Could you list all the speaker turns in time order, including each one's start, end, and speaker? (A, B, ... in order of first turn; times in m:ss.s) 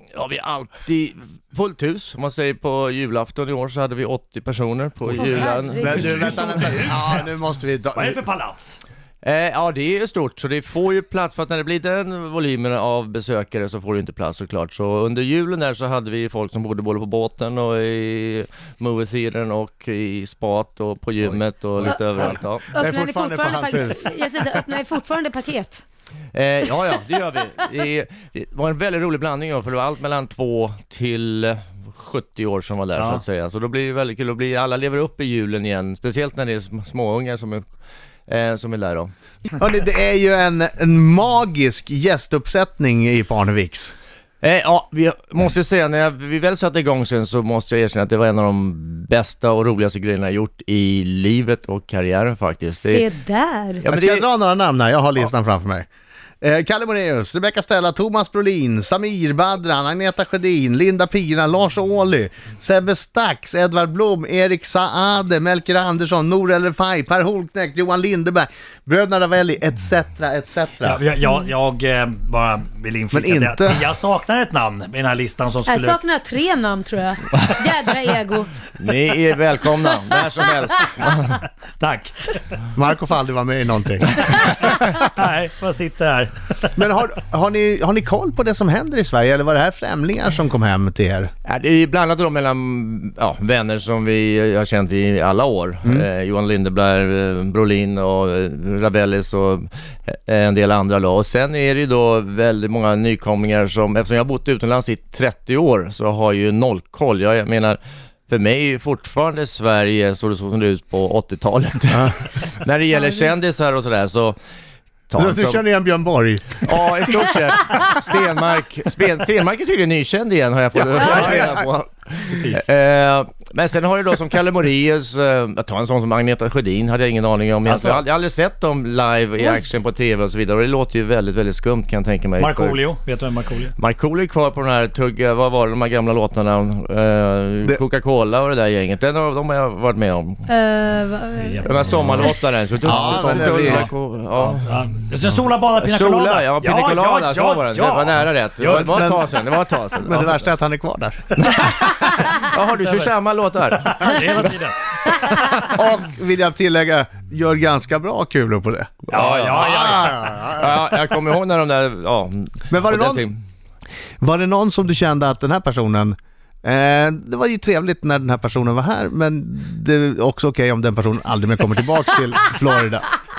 0:00.1-0:06.8 A
0:05.1-0:06.6 B
0:05.8-0:08.2 C
0:05.9-0:07.3 D
0:07.9-0:08.8 D
0:09.2-0:22.7 A
0:22.7-0:25.8 B
0:22.8-0:24.2 C
0:26.3-0:37.6 A
0:33.0-0:33.2 D
0:38.3-0:39.1 A
0:39.4-0:43.9 C
0:44.4-0:53.0 A
0:52.8-0:53.8 B
0:53.8-0:54.3 A
0:53.8-0:55.9 C
0:56.4-1:11.0 C
1:10.8-1:16.0 D
1:11.2-1:11.5 B
1:13.1-1:13.8 C
1:15.7-1:18.6 B
1:18.8-1:21.4 A
1:21.8-1:22.4 D
1:22.7-1:24.8 C
1:24.5-1:26.8 D
1:26.7-1:31.3 C
1:31.4-1:47.8 A
1:48.3-1:54.4 A
1:55.1-1:55.6 A
1:55.2-1:56.9 C
1:56.6-2:12.8 A
2:00.8-2:01.6 C
2:01.1-2:01.4 D
2:02.3-2:02.6 D
2:07.6-2:08.0 D
2:12.4-2:13.7 D
2:13.8-2:20.5 A
2:20.5-2:22.4 B
2:21.4-2:22.2 D
2:21.6-2:24.8 A
2:22.8-2:23.9 C
2:23.1-2:29.2 D
2:25.8-2:30.4 A
2:28.7-2:29.2 C
2:30.0-2:31.4 C
2:31.3-2:34.4 A
2:31.5-2:33.1 D
2:33.8-2:35.2 D
2:35.3-2:35.7 B
2:35.5-2:40.7 C
2:39.1-2:40.6 D
2:39.1-2:43.4 A
2:42.7-2:43.2 C
2:44.2-2:53.1 C